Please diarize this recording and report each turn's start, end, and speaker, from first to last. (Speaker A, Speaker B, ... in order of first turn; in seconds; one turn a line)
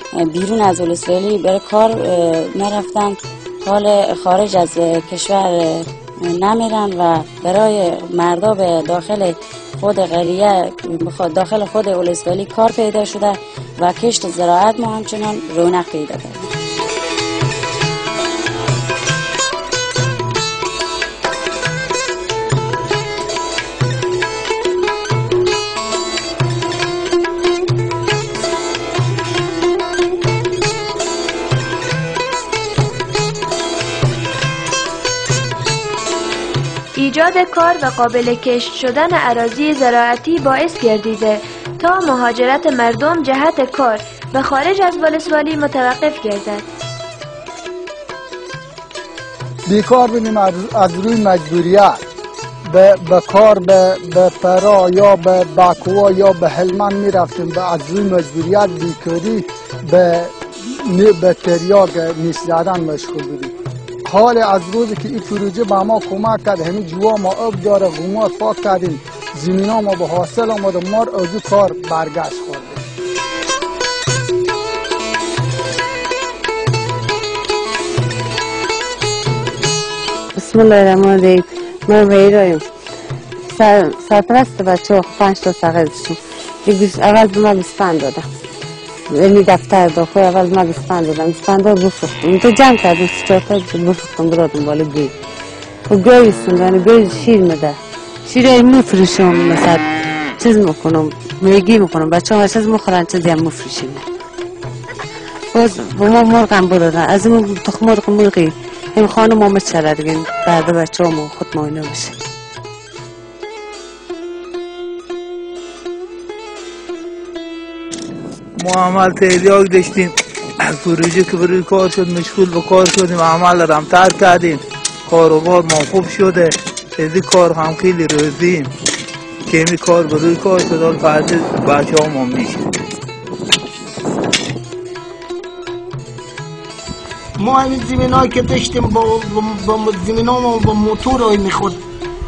Speaker A: 0.2-16.5
Speaker B: 37.0-46.6
Speaker C: 49.7-52.0
Speaker C: 52.7-63.5
Speaker C: 64.1-72.8
Speaker D: 80.4-82.6
Speaker D: 83.5-88.2
Speaker D: 89.1-95.1
Speaker D: 95.9-97.7
Speaker D: 98.3-99.8
Speaker D: 100.4-104.0
Speaker D: 105.5-112.1
Speaker E: 118.6-120.1
Speaker E: 120.7-128.7
Speaker E: 129.5-132.6
Speaker F: 137.4-141.8